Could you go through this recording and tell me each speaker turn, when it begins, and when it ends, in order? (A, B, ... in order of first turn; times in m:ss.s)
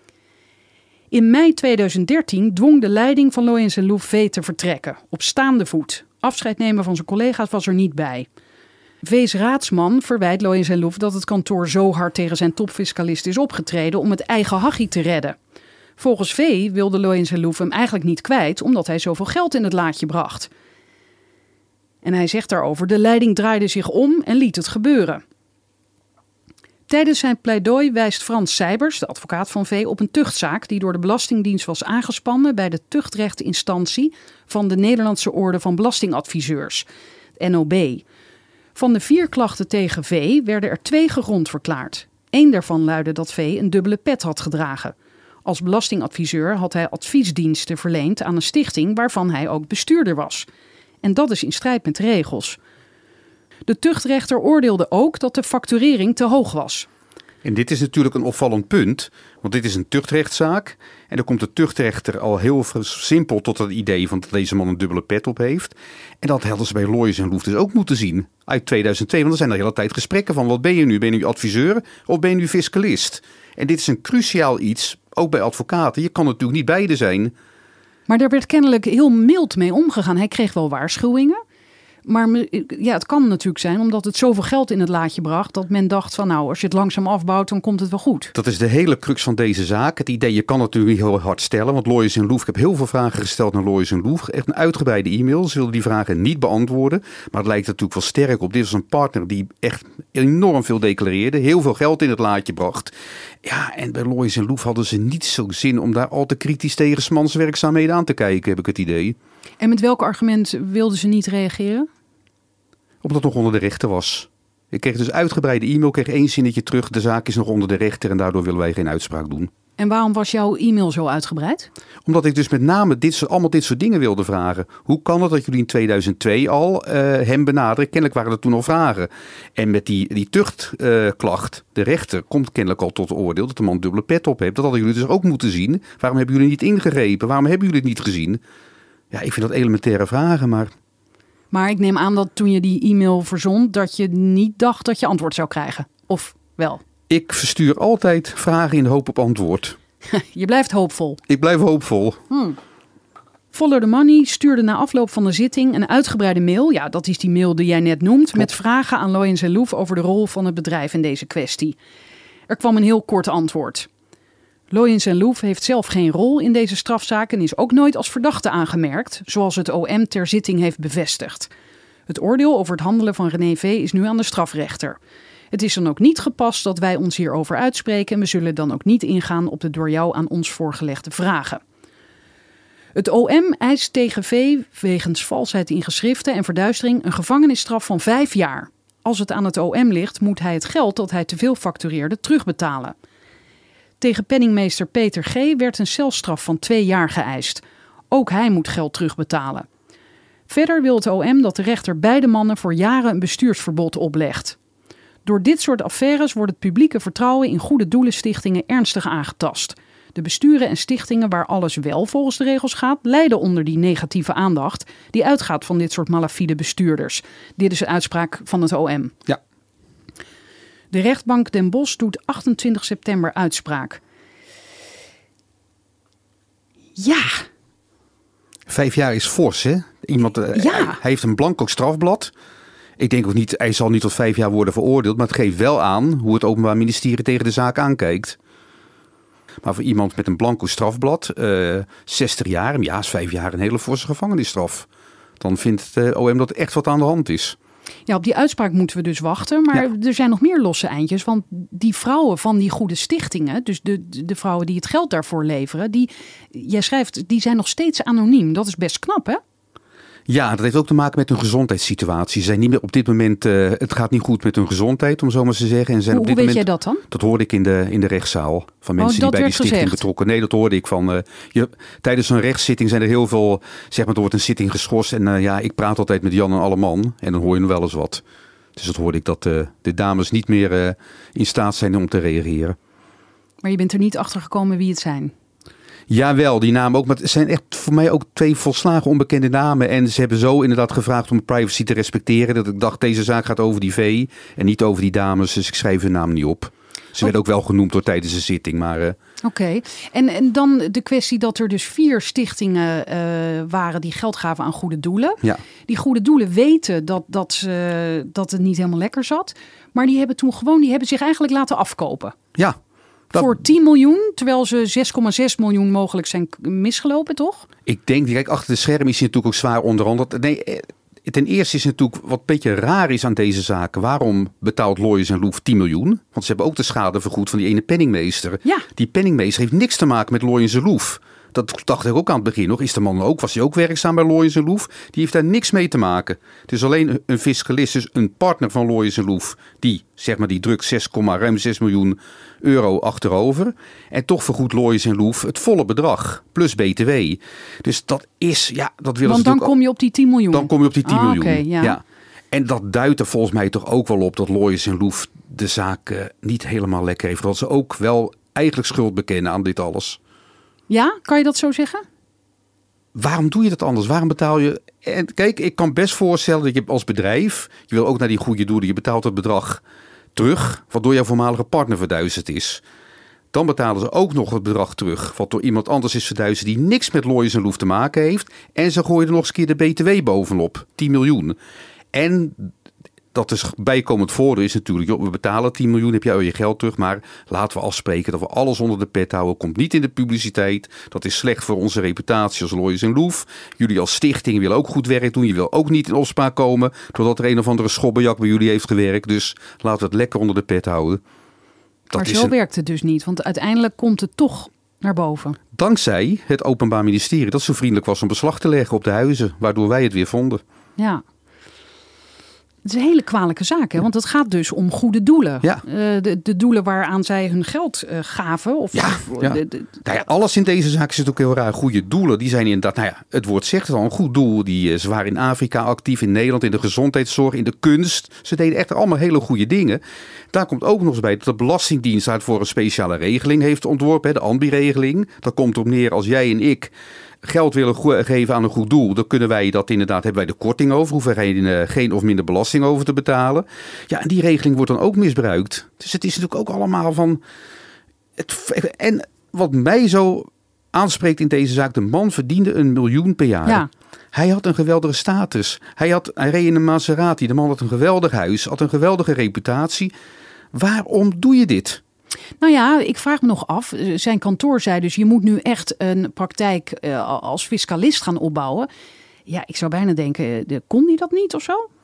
0:01.1-0:08.3 A
0:09.0-0:15.4 A
0:16.0-0:20.5 A
0:22.0-0:25.2 A
0:26.9-0:36.9 A
0:37.4-0:38.0 A
0:38.8-0:50.5 A
0:51.0-0:52.6 A
0:53.7-0:56.9 A
0:57.4-1:17.3 B
1:18.1-1:21.4 A
1:22.1-1:28.3 A
1:28.3-1:49.2 B
1:49.6-1:51.9 A
1:53.0-1:59.5 B
1:59.8-2:01.7 A
2:02.0-2:18.4 B
2:19.1-2:20.7 B
2:21.5-2:26.8 A
2:27.1-2:29.8 B
2:30.1-2:31.2 A
2:31.3-2:32.2 B
2:32.3-2:32.6 A
2:33.5-2:41.8 A
2:42.5-2:43.9 A
2:44.7-2:51.5 A
2:52.1-2:55.0 A
2:55.5-3:01.6 A
3:03.0-3:13.0 A
3:14.0-3:19.7 A
3:20.5-3:24.6 A
3:25.2-3:39.2 A
3:40.9-3:44.0 A
3:47.0-3:47.4 A
3:48.7-3:52.3 B
3:50.5-3:51.0 A
3:53.0-3:58.4 B
3:59.6-4:04.9 B
4:05.4-4:07.6 B
4:08.1-4:19.4 A
4:20.3-4:38.2 B
4:26.1-4:27.0 A
4:29.0-4:30.0 A
4:38.8-4:42.8 B
4:43.6-4:45.3 A
4:46.1-4:59.2 B
4:59.4-5:12.4 A
5:13.3-5:13.6 B
5:13.3-5:17.7 A
5:17.9-5:49.7 B
5:49.2-5:52.0 A
5:50.5-6:00.2 B
6:00.9-6:02.0 A
6:03.2-6:09.8 B
6:10.4-6:12.8 B
6:13.5-6:21.6 B
6:22.1-6:22.7 B
6:23.3-6:41.2 B
6:42.1-6:42.5 B
6:42.2-6:45.6 A
6:45.7-6:50.6 B
6:51.0-6:51.2 A
6:52.8-7:00.0 A
6:58.9-7:16.9 B
7:17.4-7:27.4 B
7:28.4-7:40.1 B
7:40.7-7:42.0 B
7:42.6-7:48.9 A
7:49.5-7:51.9 A